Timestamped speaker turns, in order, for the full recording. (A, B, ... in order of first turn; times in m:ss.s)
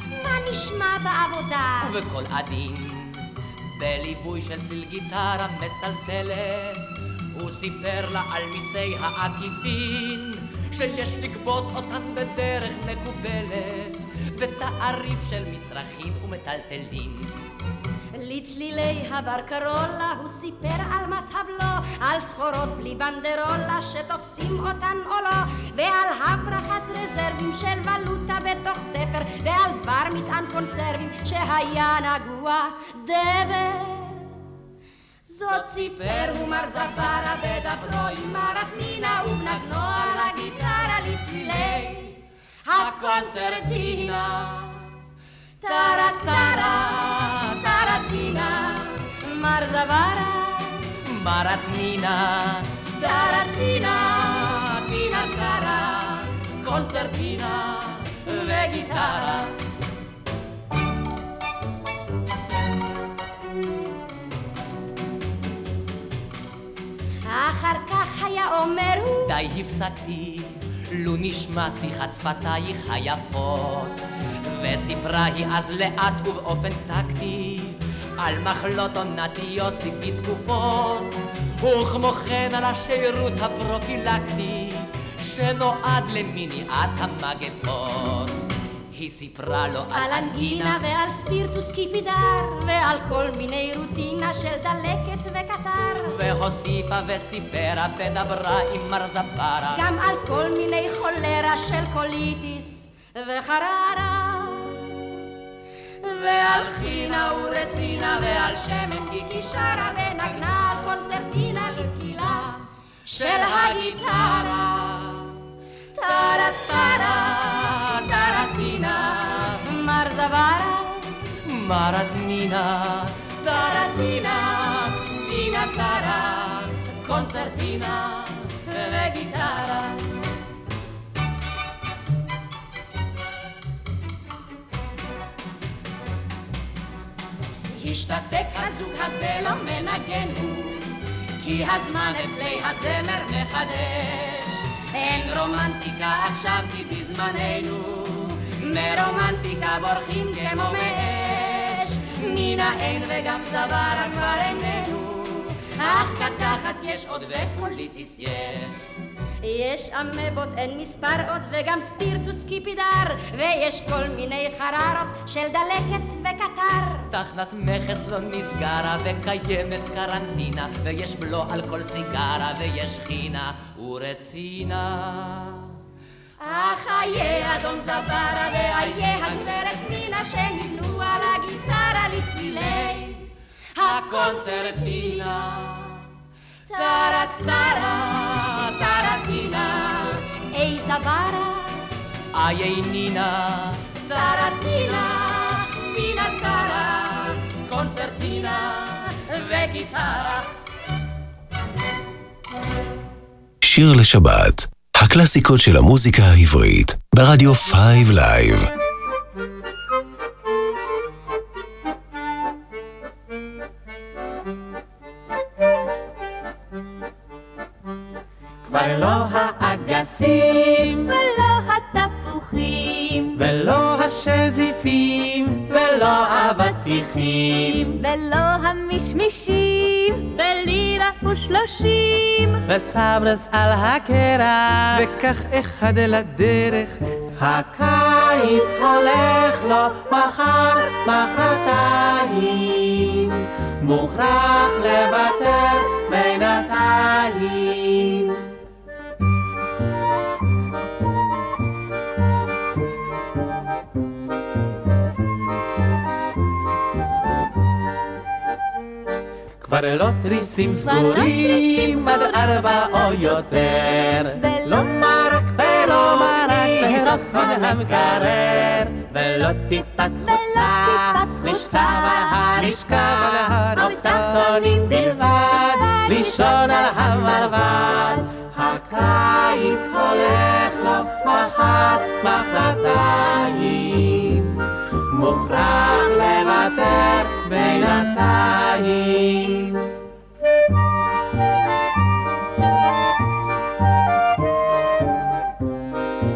0:00.2-0:01.9 A
0:01.8-0:03.2 B
0:03.8-0:06.8 B
0:07.3-0:17.3 B
0:18.2-0:34.2 A
0:35.3-0:42.1 A
0:42.6-0:44.8 A
0:45.6-0:50.8 A
0:51.1-0:52.7 B
0:53.0-0:54.2 A
0:54.3-0:55.6 B
0:55.3-0:55.7 A
0:56.6-0:57.7 B
0:58.4-0:59.1 A
0:58.8-0:59.4 B
1:07.3-1:09.3 A
1:09.2-1:14.0 B
1:14.6-1:28.4 B
1:28.9-1:30.8 B
1:29.9-1:36.1 A
1:36.0-1:39.8 B
1:39.7-1:45.0 A
1:46.0-1:55.0 A
1:56.0-1:57.5 A
1:58.0-2:01.1 A
2:01.4-2:08.2 B
2:08.7-2:09.9 A
2:17.7-2:20.8 A
2:21.4-2:35.0 A
2:35.8-2:36.9 A
2:36.0-2:38.7 B
2:39.4-2:47.0 A
2:47.1-2:55.7 B
2:56.4-3:03.2 A
3:03.8-3:05.8 A
3:06.7-3:11.8 A
3:12.3-3:13.9 B
3:14.1-3:18.8 A
3:19.3-3:20.3 A
3:23.6-3:28.7 C
3:38.6-3:41.1 D
3:41.4-3:42.9 E
3:43.3-3:47.9 D
3:48.2-3:52.5 E
3:52.7-4:08.3 D
4:19.6-4:44.4 D
4:45.1-4:49.7 D